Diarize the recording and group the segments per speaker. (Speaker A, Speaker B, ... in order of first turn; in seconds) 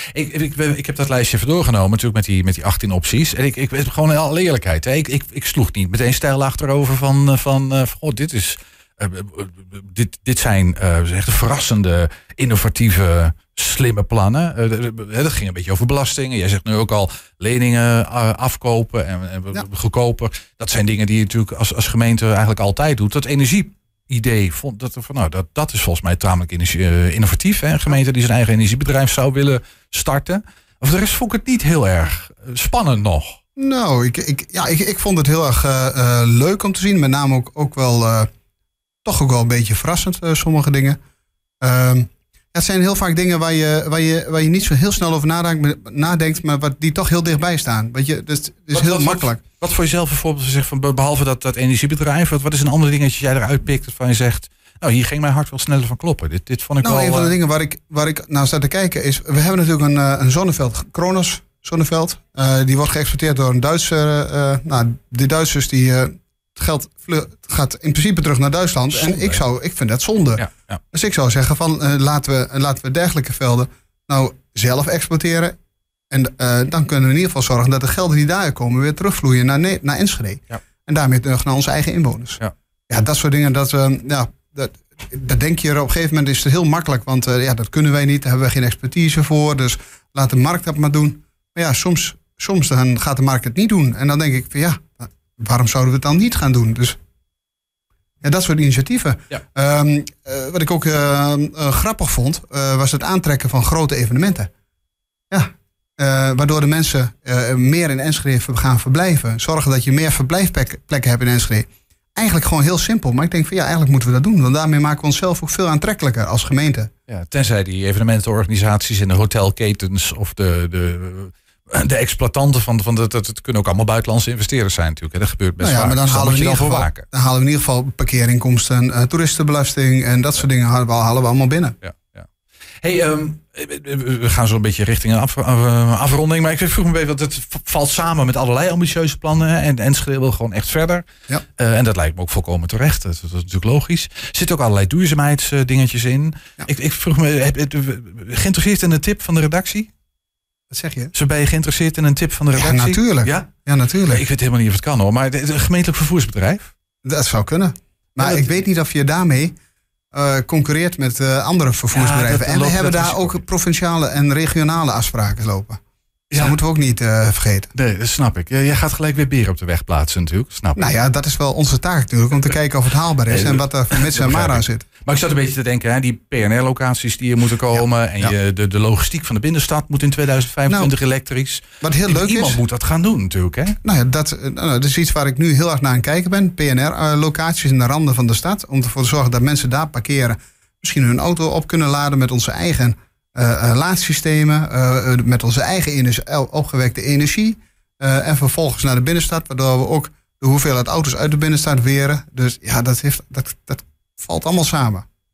Speaker A: 0.1-33.4, 48.7-57.3, 68.9-69.4, 70.4-70.8, 117.1-127.1, 131.8-132.3, 132.8-149.9, 151.1-153.5, 154.1-156.7, 158.2-158.5, 161.9-163.4, 166.3-166.6, 167.7-170.9, 173.3-183.8
Speaker B: 33.6-38.3, 39.0-41.0, 41.6-49.4, 56.8-75.5, 76.1-97.0, 98.2-104.5, 105.3-116.9, 125.6-131.8, 150.7-151.1, 152.6-154.2, 157.1-159.5, 160.1-165.8, 166.4-167.7, 170.8-174.9, 180.7-180.9, 181.8-182.6, 183.8-205.1